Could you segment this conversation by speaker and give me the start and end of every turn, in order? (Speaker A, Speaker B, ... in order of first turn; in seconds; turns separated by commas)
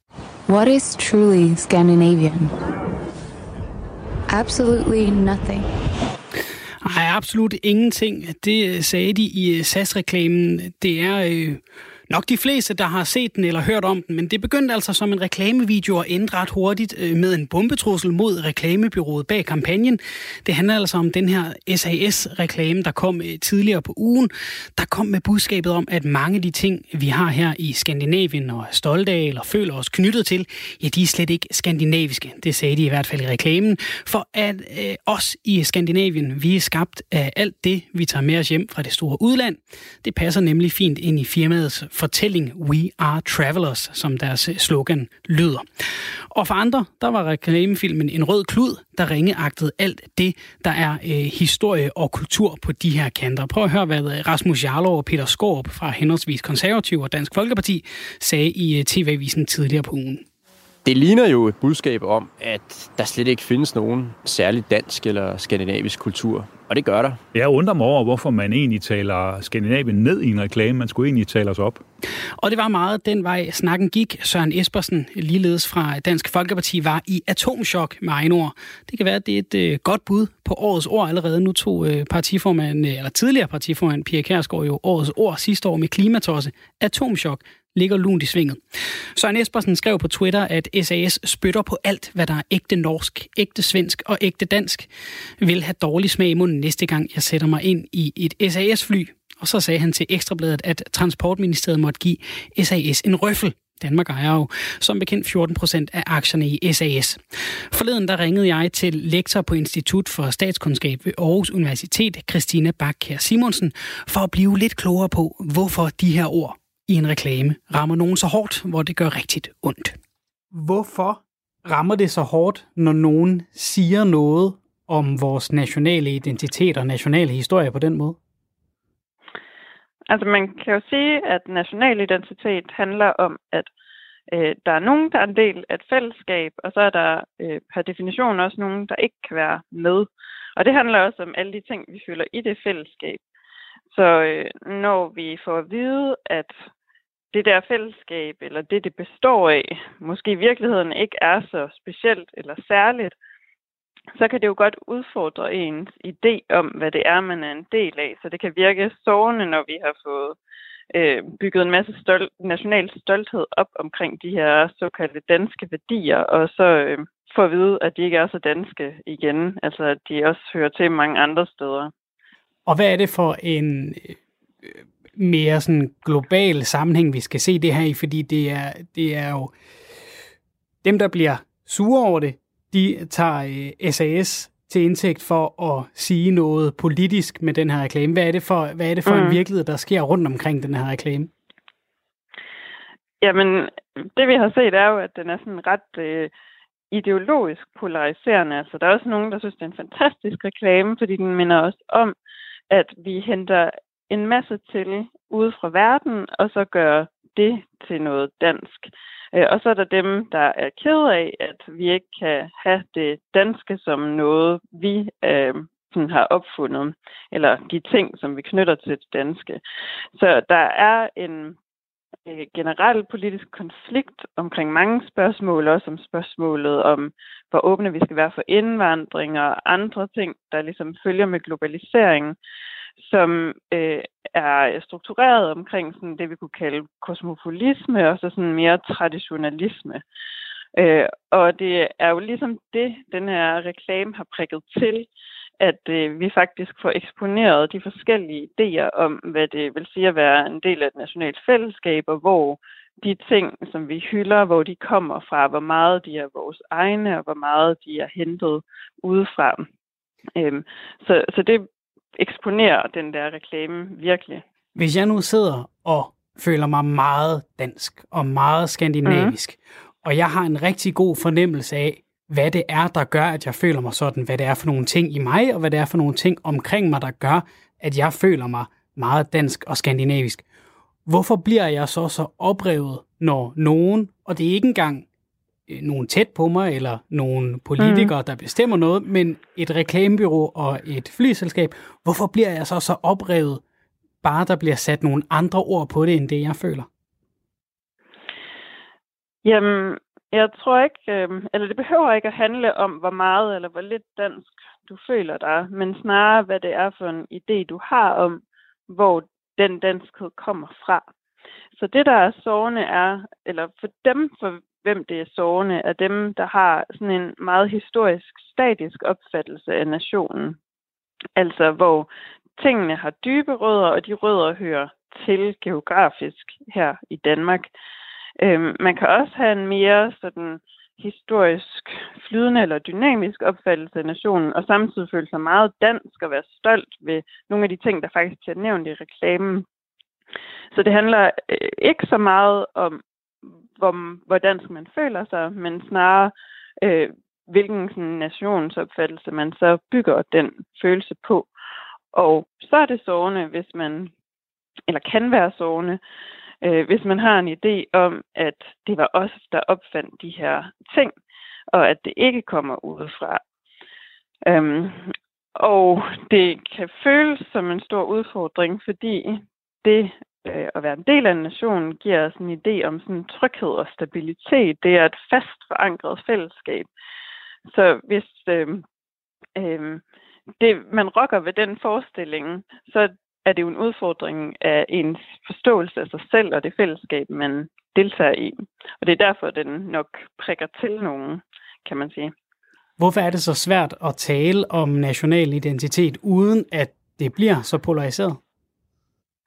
Speaker A: 0.5-2.5, Speaker A: 4.3-5.7, Speaker B: 6.8-45.6, Speaker B: 46.3-60.2, Speaker C: 60.8-67.2, Speaker D: 67.3-71.8, Speaker B: 72.4-88.6, Speaker B: 89.1-94.9, Speaker B: 95.4-120.0, Speaker B: 120.5-128.2, Speaker E: 130.1-133.7, Speaker E: 134.3-143.2, Speaker E: 143.9-146.5, Speaker E: 147.3-153.1, Speaker E: 154.1-160.3, Speaker E: 160.9-171.9, Speaker B: 172.7-179.5, Speaker B: 180.8-191.3, Speaker E: 189.1-189.4, Speaker E: 193.2-196.3, Speaker E: 196.9-202.1, Speaker E: 202.7-219.6, Speaker E: 220.1-221.6, Speaker E: 222.2-232.3, Speaker E: 233.0-240.0, Speaker E: 240.8-245.1, Speaker E: 245.6-259.6, Speaker E: 260.4-264.4, Speaker B: 264.8-280.4, Speaker E: 269.0-269.3, Speaker B: 281.1-285.1, Speaker B: 285.7-293.6, Speaker E: 287.8-288.1, Speaker B: 294.2-296.9, Speaker E: 299.4-311.0, Speaker E: 311.8-320.6, Speaker E: 321.4-327.7, Speaker E: 328.4-339.6, Speaker E: 340.7-343.0, Speaker E: 343.8-351.5, Speaker E: 352.1-354.1, Speaker E: 354.9-356.0, Speaker E: 356.6-361.1, Speaker E: 361.7-363.4, Speaker E: 364.4-376.9, Speaker E: 377.7-378.8, Speaker E: 379.6-380.0, Speaker E: 380.6-392.3, Speaker B: 393.0-398.4